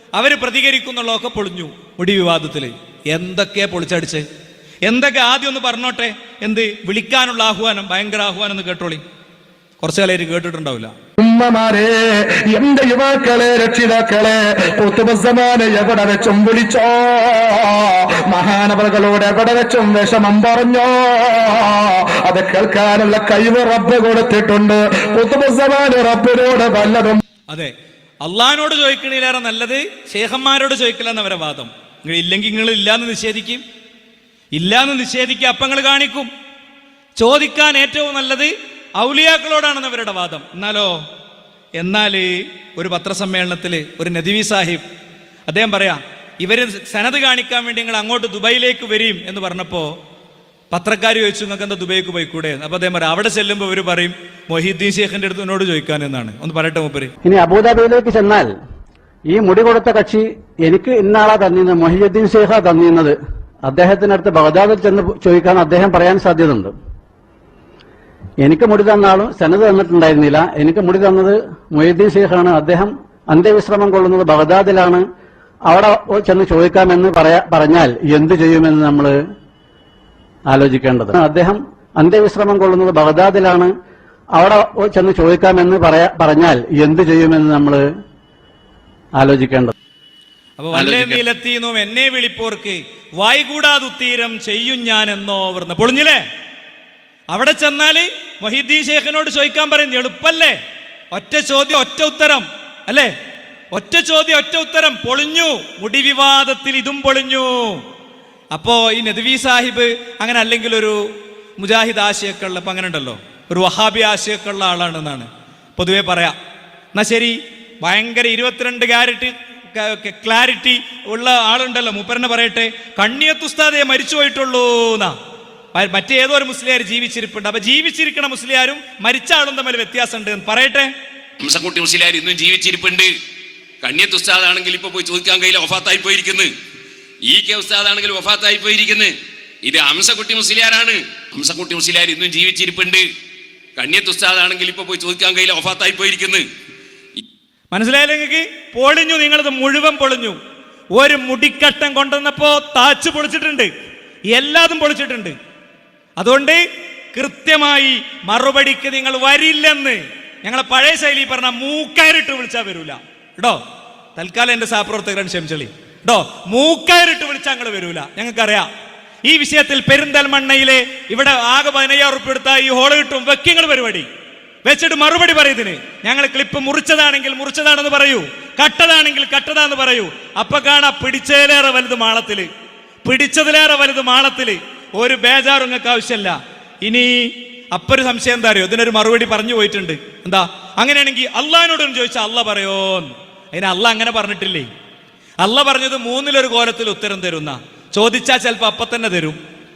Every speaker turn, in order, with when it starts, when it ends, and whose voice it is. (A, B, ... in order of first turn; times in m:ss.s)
0:00.2-0:04.2 A
0:04.9-0:09.0 A
0:09.8-0:10.9 A
0:11.2-0:27.2 B
0:28.2-0:33.6 A
0:34.5-0:36.3 A
0:37.2-0:41.0 A
0:41.8-0:44.8 A
0:45.5-0:49.9 A
0:50.7-0:57.1 A
0:57.2-0:58.5 C
0:59.3-1:03.2 C
1:03.7-1:06.7 C
1:08.4-1:15.0 C
1:15.7-1:19.2 C
1:20.5-1:23.7 C
1:24.4-1:27.8 C
1:29.2-1:29.7 C
1:30.6-1:36.2 A
1:30.8-1:31.1 C
1:37.3-1:40.6 A
1:41.1-1:43.1 A
1:43.7-1:47.8 A
1:48.5-1:51.0 A
1:51.6-1:56.4 A
1:57.0-2:05.1 A
2:05.8-2:10.9 A
2:11.4-2:13.1 D
2:13.8-2:16.5 D
2:17.2-2:23.1 D
2:23.8-2:26.5 D
2:27.7-2:30.4 A
2:31.0-2:33.7 A
2:34.3-2:35.4 A
2:36.2-2:36.6 A
2:37.1-2:43.6 A
2:44.2-2:48.7 A
2:49.3-2:54.1 A
2:54.6-3:02.5 A
3:03.0-3:14.7 A
3:15.4-3:19.4 A